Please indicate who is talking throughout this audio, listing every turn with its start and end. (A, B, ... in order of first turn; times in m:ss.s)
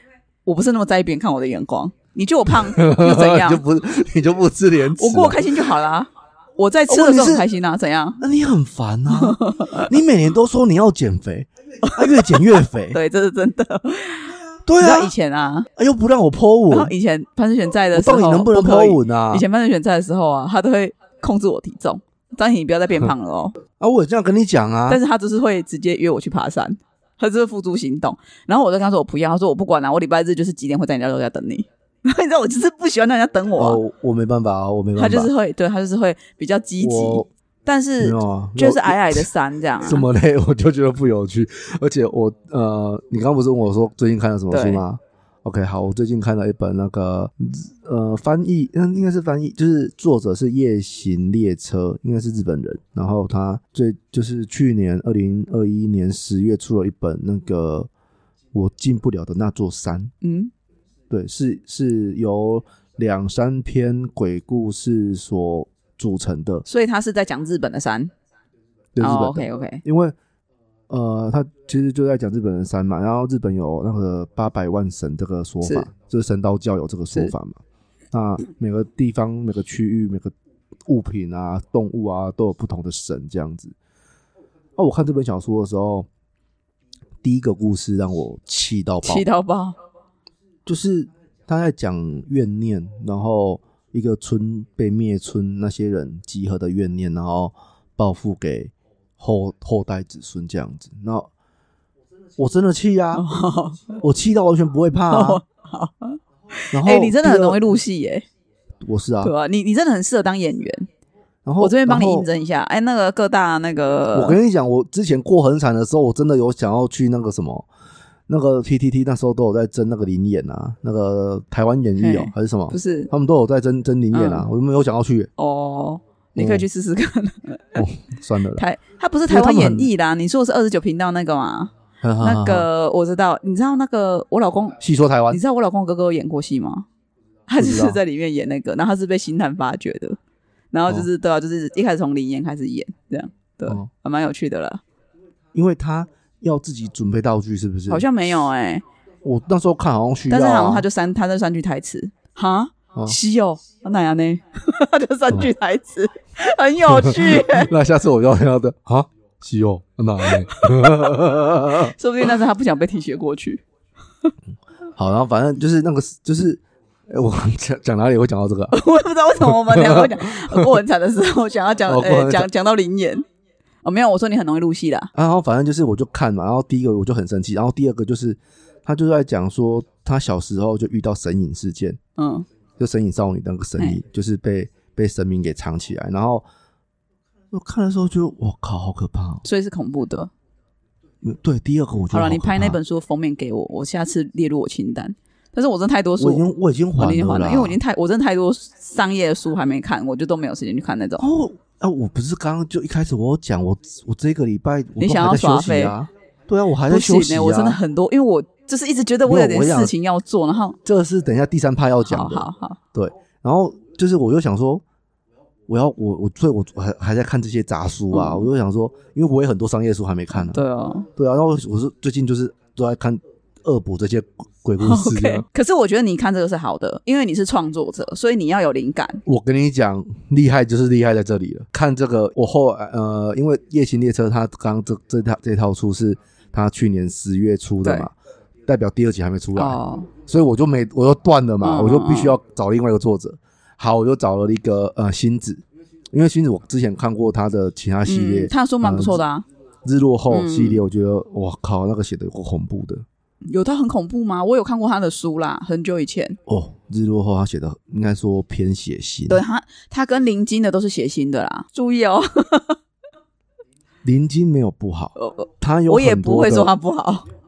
0:00.4-0:03.6 A
0:02.5-0:05.6 B
0:05.0-0:08.2 A
0:06.9-0:07.4 B
0:08.2-0:13.0 B
0:09.1-0:09.9 A
0:11.8-0:15.7 A
0:14.6-0:15.1 B
0:15.8-0:16.9 B
0:16.7-0:23.6 A
0:17.9-0:19.4 B
0:23.8-0:25.0 B
0:24.9-0:33.8 A
0:33.6-0:35.3 B
0:35.0-0:40.1 A
0:36.8-0:37.3 B
0:38.0-0:39.3 B
0:39.8-0:57.9 B
0:44.5-0:44.8 A
0:58.5-1:00.1 B
1:00.2-1:00.5 A
1:01.1-1:06.6 B
1:06.7-1:08.1 A
1:08.9-1:10.1 B
1:09.0-1:09.8 A
1:10.9-1:17.6 B
1:15.6-1:15.9 A
1:18.1-1:20.3 B
1:20.9-1:23.7 B
1:24.8-1:26.1 B
1:27.2-1:29.2 B
1:29.0-1:29.8 A
1:30.6-1:41.3 B
1:42.4-1:43.2 B
1:43.1-1:44.0 A
1:44.0-1:45.4 B
1:45.1-1:48.2 A
1:46.7-1:47.6 B
1:48.8-1:49.3 B
1:49.2-1:50.9 A
1:51.4-1:52.3 B
1:51.6-1:54.4 A
1:54.1-1:57.7 B
1:58.3-2:05.3 B
2:02.0-2:03.1 A
2:04.1-2:04.5 A
2:05.4-2:07.8 A
2:06.4-2:06.7 B
2:07.7-2:08.6 B
2:08.6-2:16.8 A
2:09.3-2:09.9 B
2:12.0-2:12.7 B
2:14.8-2:15.4 B
2:17.5-2:20.2 A
2:17.6-2:18.0 B
2:20.7-2:24.8 A
2:25.5-2:28.1 B
2:27.9-2:28.8 A
2:29.2-2:30.8 B
2:30.3-2:37.7 A
2:36.9-2:41.9 B
2:40.5-2:40.9 A
2:41.8-2:43.6 A
2:45.0-2:48.7 B
2:48.7-2:53.2 A
2:49.4-2:50.8 B
2:51.9-2:52.5 B
2:53.8-2:55.1 A
2:55.1-3:02.0 B
3:02.2-3:02.4 A
3:02.8-3:06.4 B
3:07.5-3:09.4 B
3:09.4-3:10.3 A
3:11.2-3:12.8 B
3:12.1-3:21.2 A
3:16.2-3:17.8 B
3:21.2-3:27.8 B
3:25.0-3:25.9 A
3:26.9-3:30.8 A
3:29.2-3:29.9 B
3:30.8-3:34.8 B
3:32.0-3:32.8 A
3:35.7-3:40.6 B
3:38.1-3:38.5 A
3:40.3-3:41.1 A
3:41.2-3:45.4 B
3:44.8-3:49.2 A
3:49.2-3:58.1 B
3:58.6-4:09.2 B
3:59.6-4:00.1 A
4:01.6-4:02.4 A
4:08.0-4:09.4 A
4:09.8-4:13.0 B
4:10.3-4:10.8 A
4:13.4-4:16.4 A
4:16.5-4:19.4 B
4:19.3-4:22.8 A
4:24.0-4:26.7 B
4:25.2-4:27.3 A